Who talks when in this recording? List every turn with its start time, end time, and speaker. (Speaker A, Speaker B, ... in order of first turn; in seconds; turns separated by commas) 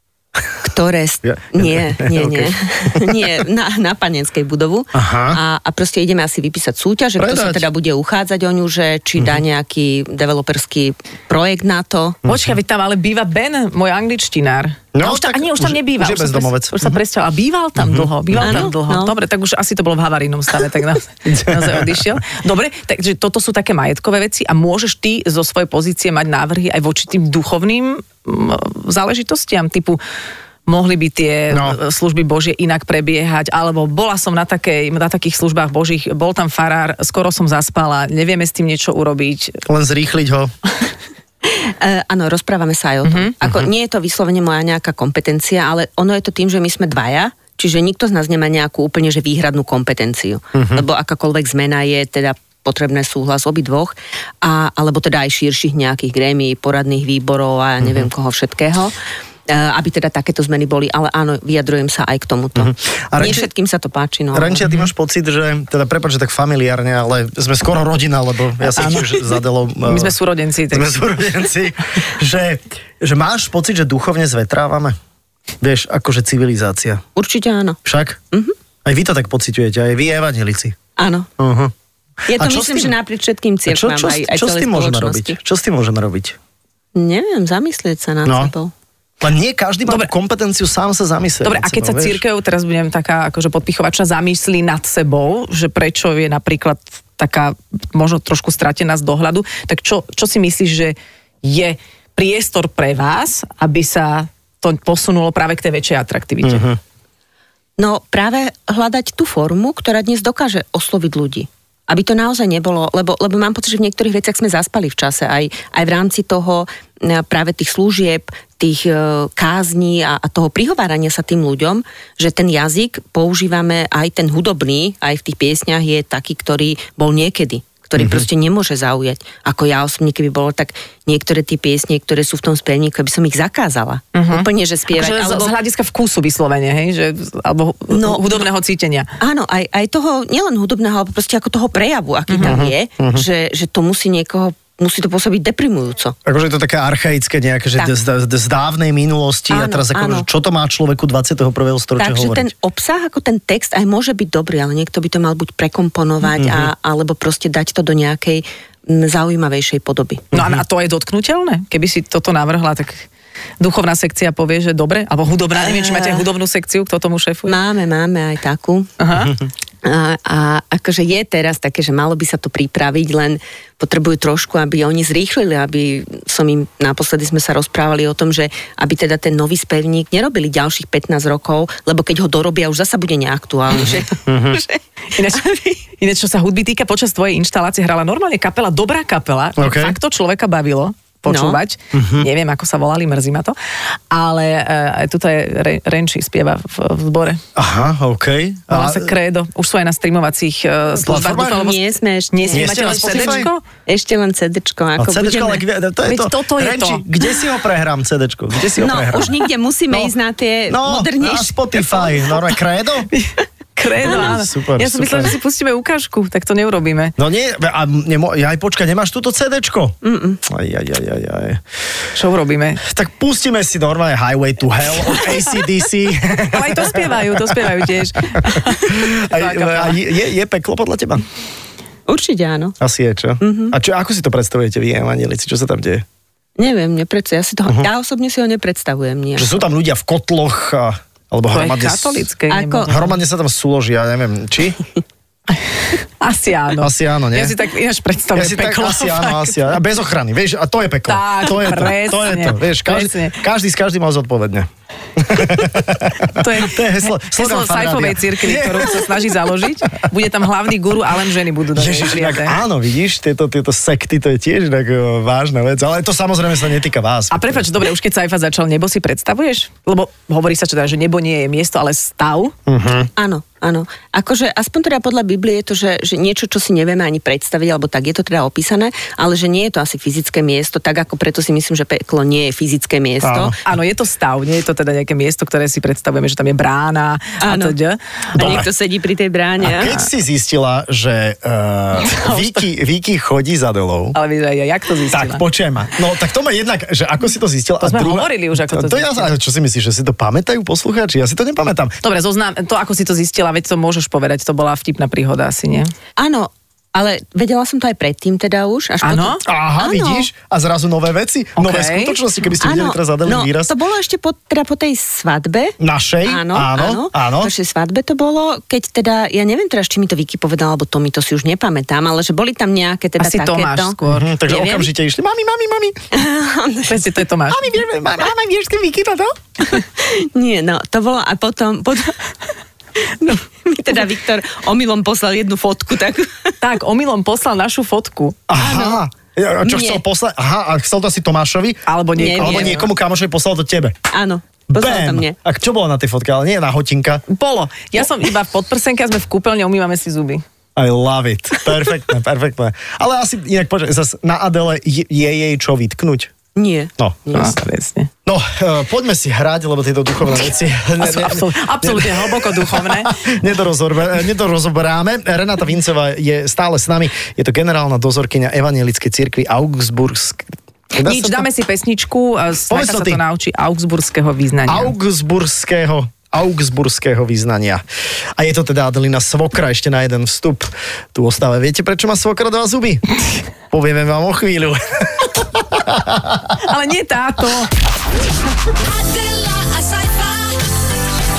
Speaker A: 0.6-12.2, Speaker B: 1.2-3.3, Speaker B: 4.9-5.4, Speaker B: 7.2-7.6, Speaker B: 12.2-12.5, Speaker C: 12.2-30.0, Speaker B: 14.9-17.0, Speaker B: 17.8-18.7, Speaker A: 18.4-19.1, Speaker B: 21.2-22.0, Speaker C: 30.7-39.6, Speaker B: 31.5-31.8, Speaker B: 39.6-40.5, Speaker A: 41.4-58.9, Speaker C: 43.0-43.3, Speaker B: 50.5-50.8, Speaker B: 57.8-58.1, Speaker A: 59.5-64.6, Speaker B: 62.5-63.5, Speaker B: 64.3-70.1, Speaker C: 68.8-70.9, Speaker B: 70.7-75.0, Speaker B: 75.6-77.0, Speaker A: 77.1-77.8, Speaker B: 77.8-78.2, Speaker B: 78.8-80.8, Speaker A: 81.0-81.3, Speaker B: 81.4-81.7, Speaker B: 82.2-82.9, Speaker A: 82.3-85.4, Speaker B: 83.7-86.3, Speaker A: 86.9-88.7, Speaker B: 88.2-88.5, Speaker B: 89.2-92.2, Speaker C: 91.4-106.7, Speaker B: 106.4-106.8, Speaker A: 107.8-135.5, Speaker B: 128.0-128.2, Speaker C: 134.1-139.1, Speaker A: 137.9-138.4, Speaker A: 139.2-146.2, Speaker C: 142.3-142.6, Speaker B: 142.4-143.2, Speaker B: 146.2-152.5, Speaker A: 149.5-150.3, Speaker A: 152.0-160.3, Speaker B: 156.4-156.7, Speaker B: 160.3-160.6, Speaker C: 160.3-163.1, Speaker C: 163.6-167.5, Speaker A: 165.6-166.2, Speaker A: 167.4-168.9, Speaker C: 169.0-169.3, Speaker A: 169.8-185.8, Speaker B: 184.3-184.6, Speaker C: 185.1-193.6, Speaker B: 189.6-190.0, Speaker A: 191.2-191.6, Speaker B: 191.9-192.3, Speaker C: 194.1-197.4, Speaker B: 197.6-199.1, Speaker C: 198.7-203.6, Speaker B: 200.9-201.7, Speaker A: 201.5-205.6, Speaker B: 202.5-203.5, Speaker B: 205.0-209.3, Speaker C: 206.0-207.3, Speaker A: 208.8-212.2, Speaker B: 210.7-213.1, Speaker C: 213.1-217.1, Speaker B: 214.0-215.3, Speaker A: 214.0-214.3, Speaker B: 217.2-221.6, Speaker A: 220.0-220.4, Speaker C: 222.1-222.8, Speaker B: 222.8-231.2, Speaker C: 226.4-230.0, Speaker A: 232.1-232.8, Speaker B: 232.8-236.0, Speaker A: 233.4-233.7, Speaker A: 236.6-239.6, Speaker B: 239.4-242.3, Speaker C: 241.5-243.1, Speaker A: 242.5-242.9, Speaker B: 242.9-244.8, Speaker C: 245.9-249.7, Speaker B: 246.8-247.6, Speaker B: 248.3-259.1, Speaker C: 251.1-253.4, Speaker C: 256.3-262.6, Speaker B: 261.7-267.7, Speaker C: 267.3-272.5, Speaker B: 272.7-273.1, Speaker A: 273.1-283.5, Speaker B: 283.2-283.6, Speaker C: 283.6-288.6, Speaker A: 287.4-287.8, Speaker A: 288.3-290.0, Speaker B: 288.4-288.7, Speaker B: 289.6-294.2, Speaker C: 292.0-292.7, Speaker C: 294.1-295.4, Speaker B: 295.1-301.9, Speaker C: 297.8-299.3, Speaker C: 302.0-305.9, Speaker A: 306.2-310.3, Speaker C: 309.0-309.4, Speaker B: 309.4-313.7, Speaker C: 311.6-312.2, Speaker A: 312.6-324.0, Speaker B: 315.8-317.5, Speaker C: 323.2-324.6, Speaker B: 324.1-326.0, Speaker A: 324.5-324.8, Speaker A: 326.1-327.1, Speaker C: 326.9-327.8, Speaker B: 327.5-329.3, Speaker A: 329.6-332.1, Speaker A: 333.0-336.5, Speaker C: 336.6-338.4, Speaker B: 338.5-343.9, Speaker A: 338.6-339.0, Speaker A: 339.6-340.0, Speaker C: 341.9-342.9, Speaker A: 342.2-342.9, Speaker A: 344.1-345.4, Speaker B: 344.7-347.2, Speaker C: 347.3-350.4, Speaker B: 350.8-356.3, Speaker A: 356.5-357.6, Speaker B: 357.0-357.4, Speaker C: 357.3-358.1, Speaker B: 358.2-371.4, Speaker C: 361.0-363.2, Speaker C: 371.0-374.9, Speaker B: 372.7-373.2, Speaker B: 374.7-377.8, Speaker B: 378.4-383.0, Speaker B: 383.7-386.6, Speaker C: 386.6-387.7, Speaker C: 388.7-390.6